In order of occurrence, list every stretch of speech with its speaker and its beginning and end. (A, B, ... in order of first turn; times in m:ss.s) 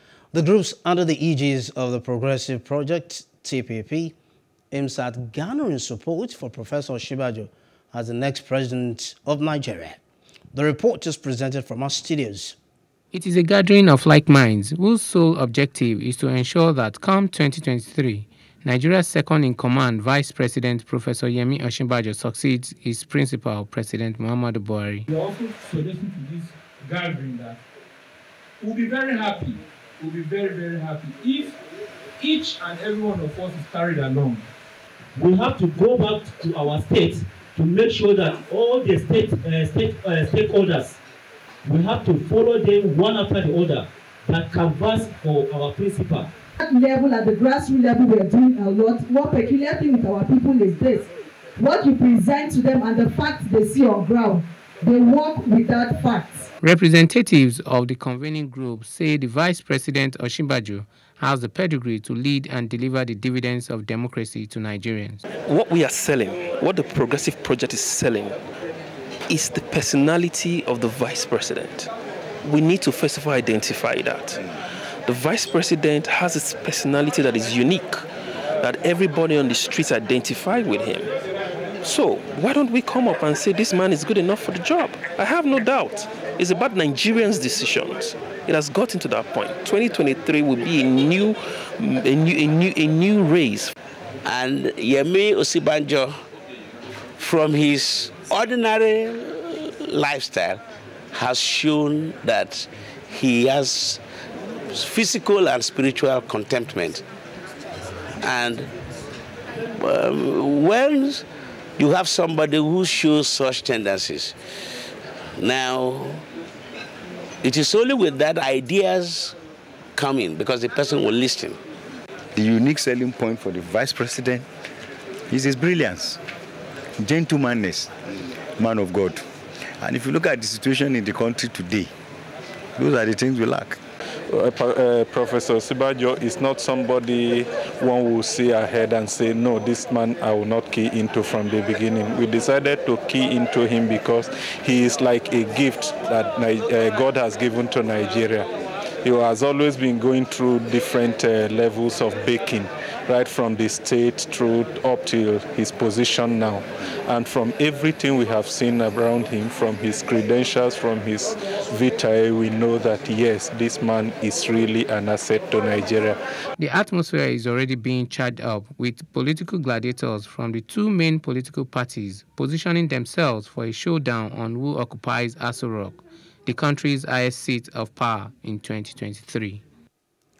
0:00.3-0:04.1 A
0:04.7-0:10.0 A
0:10.5-0:12.6 A
0:13.1-0:25.1 B
0:25.1-0:27.6 C
0:28.6-0:31.5 C
0:32.2-0:34.4 C
0:35.1-0:41.0 D
0:41.6-0:46.3 D
0:46.6-0:56.5 E
0:56.6-1:05.2 B
1:05.4-1:08.4 F
1:09.3-1:11.9 F
1:12.4-1:14.4 F
1:15.0-1:18.0 F
1:18.6-1:21.1 F
1:21.8-1:33.7 F
1:34.2-1:36.2 G
1:37.2-1:44.0 G
1:44.7-1:47.0 G
1:48.2-1:48.7 G
1:49.7-1:51.2 G
1:51.8-1:54.3 G
1:55.4-1:56.2 G
1:57.4-1:59.4 G
2:00.0-2:01.6 G
2:02.3-2:04.4 H
2:05.3-2:06.2 H
2:07.0-2:07.9 H
2:08.6-2:09.2 H
2:09.8-2:11.9 H
2:12.8-2:13.8 H
2:14.3-2:28.4 I
2:29.0-2:46.2 I
2:46.6-2:59.6 B